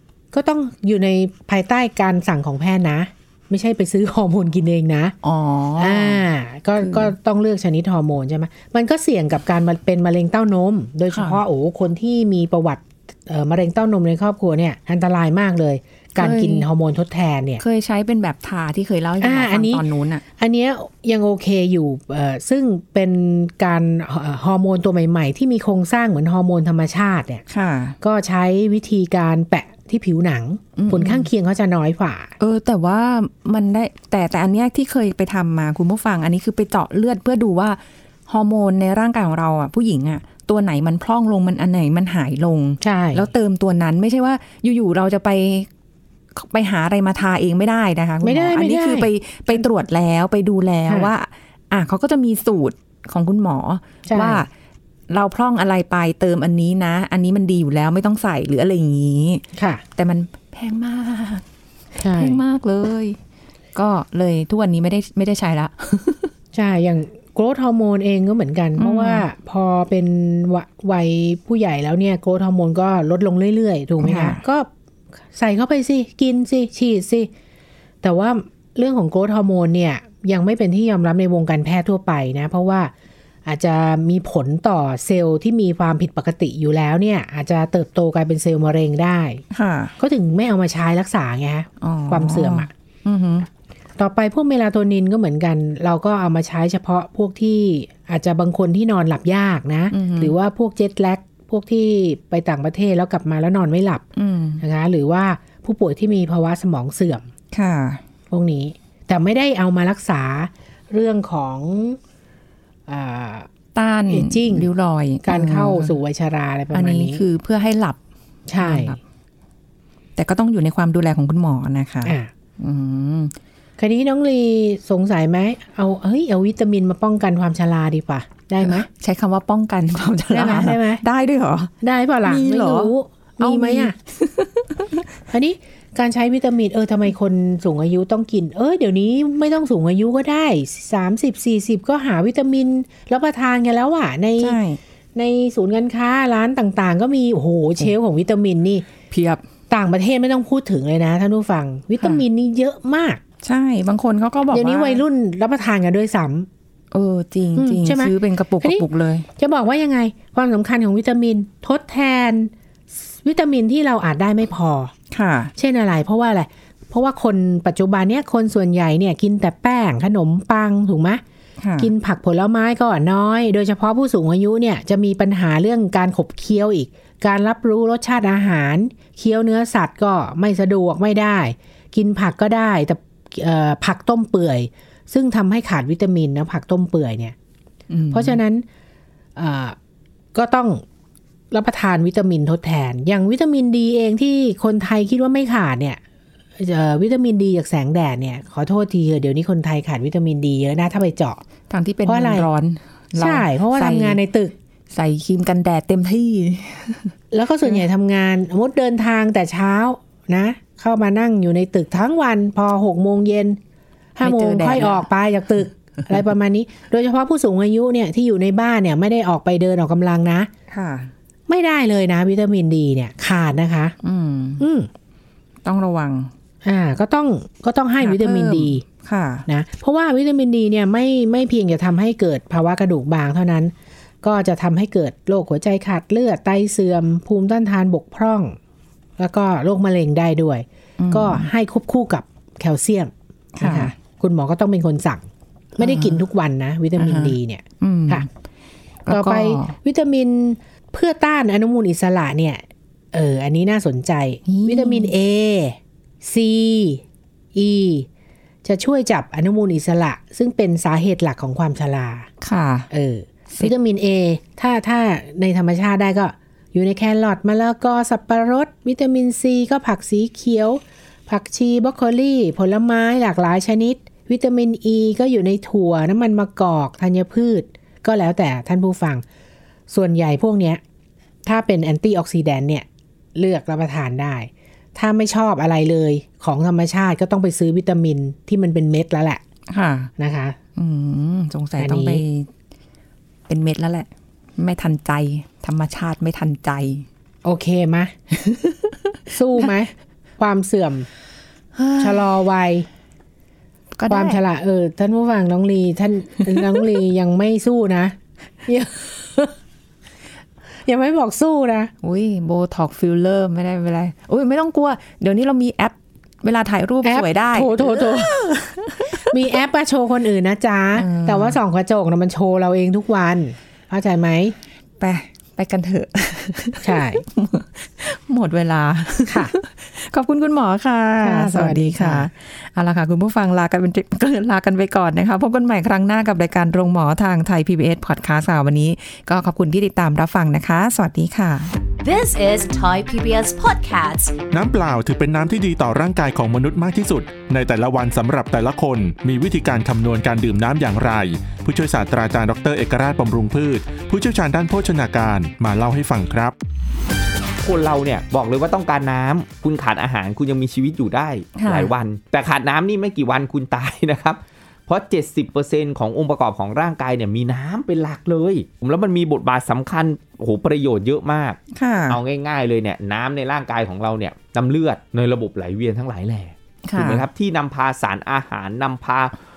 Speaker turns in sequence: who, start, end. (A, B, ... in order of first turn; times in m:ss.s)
0:00.3-0:05.1 A
0:05.2-0:06.2 B
0:05.8-0:17.6 A
0:06.8-0:07.1 B
0:11.1-0:11.4 B
0:16.2-0:16.7 B
0:17.6-0:20.2 B
0:19.2-0:19.8 A
0:20.4-0:27.4 A
0:27.5-0:28.0 B
0:28.0-0:32.3 A
0:30.8-0:31.3 B
0:32.4-0:45.7 B
0:42.8-0:43.2 A
0:46.3-0:54.5 B
0:48.2-0:49.6 A
0:54.1-0:54.4 A
0:55.1-1:01.4 B
0:59.6-0:59.8 A
1:02.0-1:02.4 A
1:02.0-1:03.2 B
1:03.7-1:06.3 B
1:06.5-1:14.7 A
1:08.8-1:09.2 B
1:14.0-1:14.4 B
1:15.3-1:17.3 A
1:18.0-1:22.9 A
1:23.4-1:29.4 A
1:29.5-1:29.9 B
1:30.0-1:32.7 A
1:31.8-1:33.5 B
1:34.0-1:44.0 A
1:39.9-1:40.3 B
1:44.1-1:44.6 B
1:44.6-1:47.3 A
1:47.5-1:48.0 B
1:48.3-1:52.0 A
1:52.9-1:53.5 A
1:53.7-1:56.0 B
1:54.1-1:54.7 A
1:55.2-1:57.2 A
1:56.7-1:58.0 B
1:58.5-1:59.0 A
1:58.6-1:59.0 B
2:00.2-2:03.3 B
2:02.0-2:02.3 A
2:03.8-2:08.9 A
2:08.6-2:11.7 B
2:10.3-2:11.0 A
2:11.8-2:13.9 A
2:12.2-2:15.0 B
2:15.3-2:24.6 A
2:24.4-2:24.8 B
2:25.1-2:28.8 A
2:29.1-2:29.4 B
2:29.7-2:33.2 A
2:33.4-2:35.0 B
2:34.5-2:36.5 A
2:36.9-2:39.3 B
2:37.6-2:38.8 A
2:39.4-2:42.5 A
2:43.1-2:44.9 A
2:45.1-2:45.5 B
2:45.6-2:51.2 A
2:51.6-2:51.9 B
2:51.8-3:07.3 A
3:07.9-3:08.4 B
3:08.1-3:08.6 A
3:09.4-3:09.8 A
3:10.3-3:10.8 A
3:11.5-3:16.0 A
3:16.6-3:21.4 A
3:21.7-3:24.2 B
3:22.0-3:22.5 A
3:23.2-3:24.5 A
3:24.9-3:27.1 B
3:27.3-3:33.6 A
3:34.2-3:40.5 A
3:34.2-3:35.0 B
3:40.7-3:41.1 B
3:41.5-3:43.9 A
3:44.0-3:44.6 B
3:44.6-3:44.9 A
3:45.6-3:46.3 B
3:46.6-3:48.8 A
3:48.0-3:49.4 B
3:49.5-3:58.6 A
3:59.2-4:08.2 A
4:01.0-4:01.5 B
4:03.6-4:03.9 B
4:05.8-4:06.2 B
4:07.0-4:08.3 B
4:09.0-4:09.7 B
4:09.1-4:17.0 A
4:14.5-4:15.1 B
4:17.5-4:18.1 A
4:18.6-4:22.3 A
4:22.4-4:22.9 B
4:22.9-4:39.2 A
4:39.9-4:40.8 A
4:41.4-4:49.4 A
4:49.7-4:50.1 B
4:50.2-4:50.6 A
4:50.8-4:52.5 B
4:51.8-4:52.2 A
4:53.5-4:57.1 B
4:57.4-4:58.1 A
4:58.4-4:59.7 B
4:59.3-5:01.1 A
5:01.7-5:02.3 B
5:02.0-5:02.9 A
5:04.0-5:04.4 B
5:04.1-5:09.5 A
5:06.5-5:06.8 B
5:10.8-5:11.9 A
5:12.0-5:19.4 B
5:17.0-5:18.4 A
5:19.1-5:24.5 A
5:21.0-5:21.6 B
5:25.0-5:41.8 B
5:26.8-5:27.2 A
5:29.3-5:29.5 A
5:31.2-5:32.2 A
5:42.0-5:44.4 C
5:44.5-5:56.5 D
5:57.6-6:19.4 E
6:01.6-6:01.9 B
6:11.7-6:12.2 B
6:16.9-6:17.3 B